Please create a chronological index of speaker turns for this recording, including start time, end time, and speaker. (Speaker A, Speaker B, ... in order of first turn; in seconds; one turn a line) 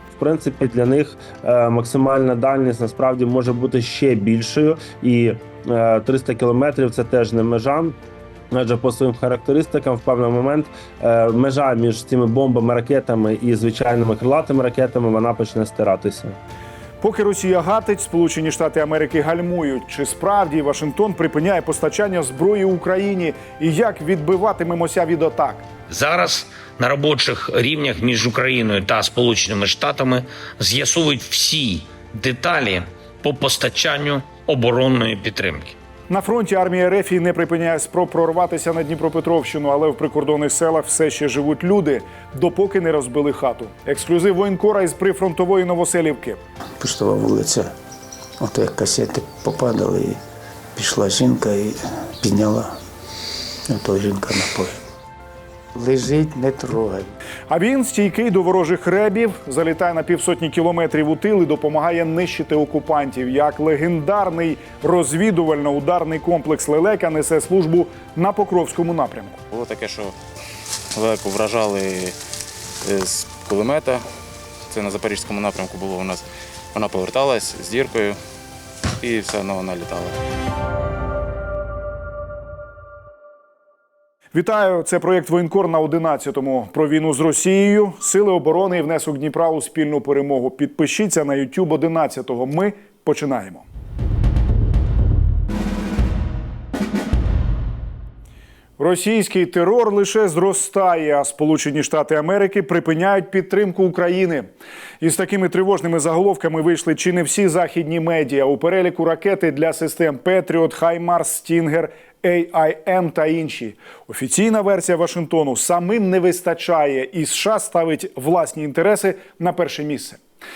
Speaker A: 0.1-8.0
Speaker A: 8.5-16.4
Speaker B: 17.0-25.6
Speaker C: 25.9-35.8
Speaker B: 36.1-46.4
Speaker D: 46.8-47.7
Speaker D: 48.4-50.2
Speaker D: 50.7-52.8
Speaker D: 53.7-54.8
Speaker D: 55.7-57.1
Speaker B: 57.5-69.4
Speaker E: 69.5-70.1
Speaker E: 70.9-72.2
Speaker E: 72.8-74.0
Speaker E: 74.7-78.2
Speaker E: 79.0-80.2
Speaker B: 84.3-93.6
Speaker B: 98.8-104.5
Speaker B: 105.0-120.2